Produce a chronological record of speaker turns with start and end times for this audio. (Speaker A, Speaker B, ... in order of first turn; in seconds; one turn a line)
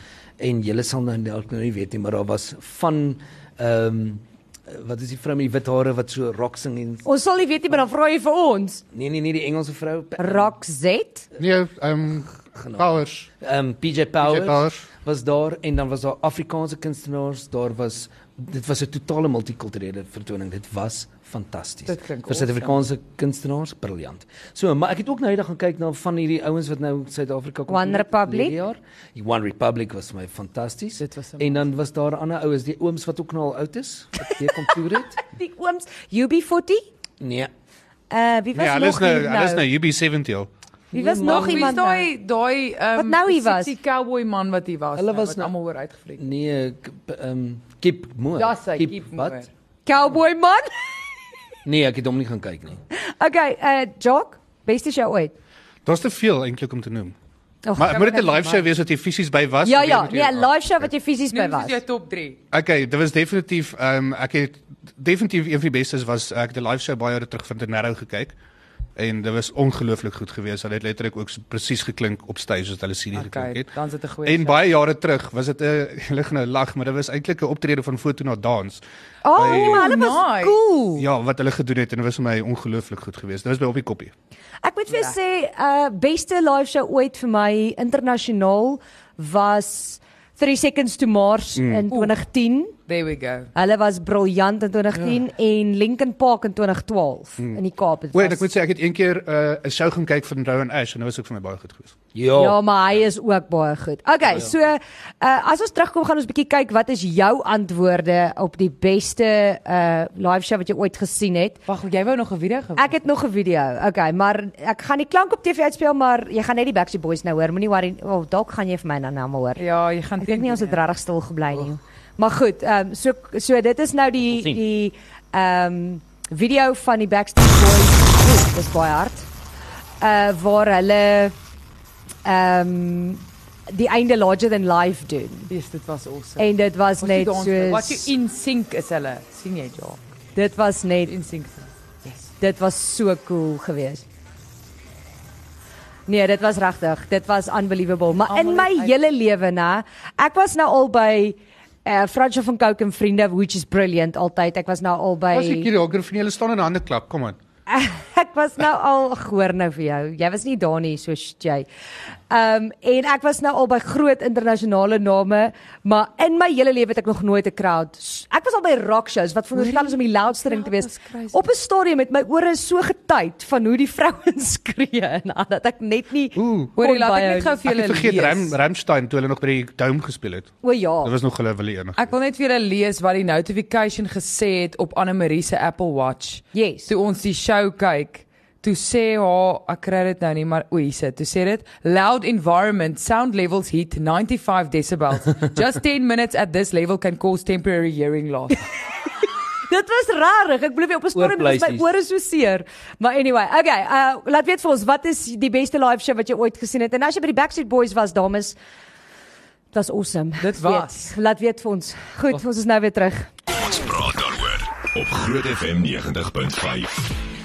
Speaker A: 0.4-7.0
Speaker B: 7.0-8.8
Speaker A: 8.9-10.5
Speaker B: 10.2-11.3
Speaker C: 11.4-13.3
Speaker A: 12.5-12.9
Speaker A: 13.4-35.2
Speaker C: 14.2-14.8
Speaker D: 21.9-22.8
Speaker B: 27.7-28.6
Speaker D: 31.0-31.6
Speaker B: 35.1-36.9
Speaker A: 37.2-37.5
Speaker B: 38.1-39.6
Speaker C: 38.5-40.5
Speaker A: 40.9-41.7
Speaker B: 40.9-42.1
Speaker D: 41.2-46.2
Speaker B: 43.0-43.7
Speaker A: 45.0-45.5
Speaker A: 46.2-49.4
Speaker D: 48.4-49.5
Speaker B: 49.9-50.7
Speaker A: 51.6-52.8
Speaker B: 52.9-55.3
Speaker C: 55.9-57.1
Speaker B: 57.6-58.7
Speaker C: 57.8-60.5
Speaker B: 59.6-61.8
Speaker D: 61.3-62.4
Speaker C: 62.5-68.3
Speaker C: 69.0-73.7
Speaker D: 73.1-74.8
Speaker C: 74.2-78.8
Speaker B: 79.2-81.0
Speaker D: 79.3-80.6
Speaker C: 79.3-80.0
Speaker C: 81.0-84.1
Speaker B: 84.6-92.7
Speaker D: 84.9-85.1
Speaker C: 91.6-91.9
Speaker D: 92.9-93.5
Speaker B: 93.5-98.5
Speaker C: 98.1-101.9
Speaker A: 102.1-102.6
Speaker B: 102.3-111.6
Speaker D: 111.7-113.0
Speaker B: 112.8-119.6
Speaker D: 119.6-120.8
Speaker B: 120.2-129.3
Speaker A: 124.2-124.6
Speaker B: 130.0-131.3
Speaker B: 132.2-135.5
Speaker D: 135.5-140.0
Speaker B: 136.4-138.1
Speaker B: 140.3-141.1
Speaker D: 141.1-142.3
Speaker B: 142.4-144.0
Speaker B: 146.1-155.7
Speaker D: 148.3-148.9
Speaker C: 155.3-157.4
Speaker B: 157.7-161.7
Speaker B: 162.3-177.6
Speaker D: 169.5-171.4
Speaker C: 176.3-176.7
Speaker D: 176.8-178.6
Speaker C: 177.6-182.0
Speaker B: 180.6-181.1
Speaker D: 181.9-198.7
Speaker B: 186.5-186.9
Speaker B: 199.7-208.6
Speaker A: 201.1-201.9
Speaker B: 209.7-213.3
Speaker D: 210.4-211.1
Speaker E: 213.5-217.1